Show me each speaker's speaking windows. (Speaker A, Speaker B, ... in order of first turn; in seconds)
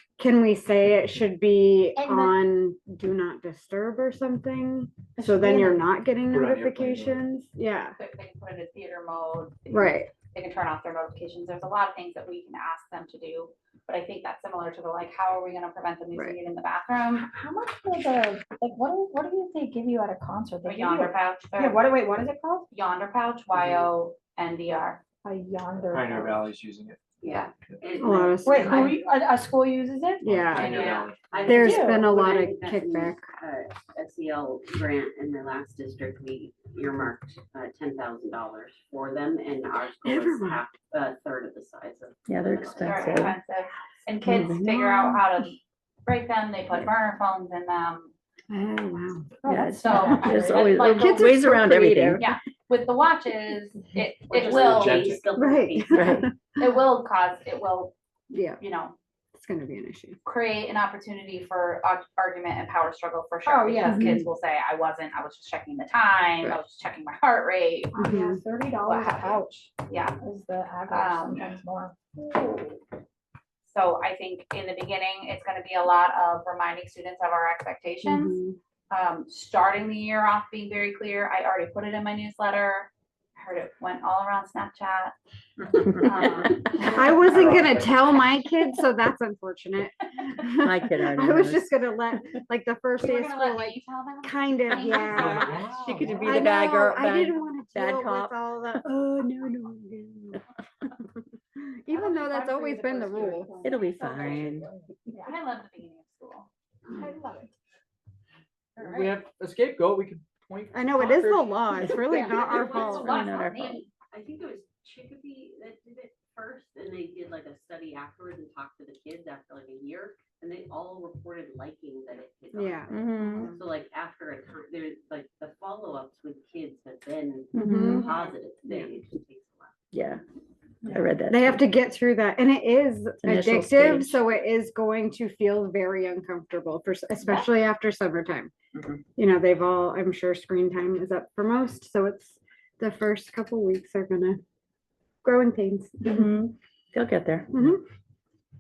Speaker A: 0.2-8.0, 9.7-10.1, 28.0-28.7, 30.2-30.8, 31.4-33.3, 40.0-40.6, 44.6-45.2, 48.5-49.4, 50.9-52.2, 55.3-56.3, 58.3-58.6, 59.3-60.2, 68.0-68.4, 78.0-78.6, 86.9-95.5, 96.2-100.4, 101.6-103.6, 110.7-113.2, 122.5-122.9, 127.7-128.0, 131.3-138.5, 139.2-144.4, 145.2-146.3
Speaker B: 1.9-2.4, 5.2-5.8, 17.2-22.6, 25.2-26.5, 28.4-30.3, 31.5-32.0, 49.4-50.5, 63.5-64.2, 67.9-72.8, 94.7-95.8, 101.9-105.3, 107.0-107.5, 123.2-123.5, 130.8-131.1
Speaker C: 5.4-5.7, 6.3-7.2, 25.9-27.0, 30.2-31.4, 54.4-55.2, 86.8-88.0, 95.0-96.3, 108.8-111.8
Speaker D: 8.0-17.3, 20.6-21.9, 22.7-25.0, 42.8-48.1, 49.7-51.5, 52.2-55.1, 56.5-57.9, 58.6-58.9, 60.2-68.2, 68.8-70.2, 70.9-71.5, 73.6-78.4, 78.9-85.1, 85.9-87.3, 93.0-96.0, 105.1-106.5, 112.1-113.9
Speaker E: 23.5-23.9, 27.2-29.0, 30.5-43.1, 54.3-56.2, 112.3-113.3, 113.9-129.8
Speaker F: 42.3-43.4, 49.5-52.2, 55.9-56.3, 90.6-91.9, 95.6-98.8, 103.6-104.7, 111.8-113.8, 122.9-123.5, 127.5-128.0, 129.9-130.2, 130.9-131.7, 133.2-134.2, 146.0-147.5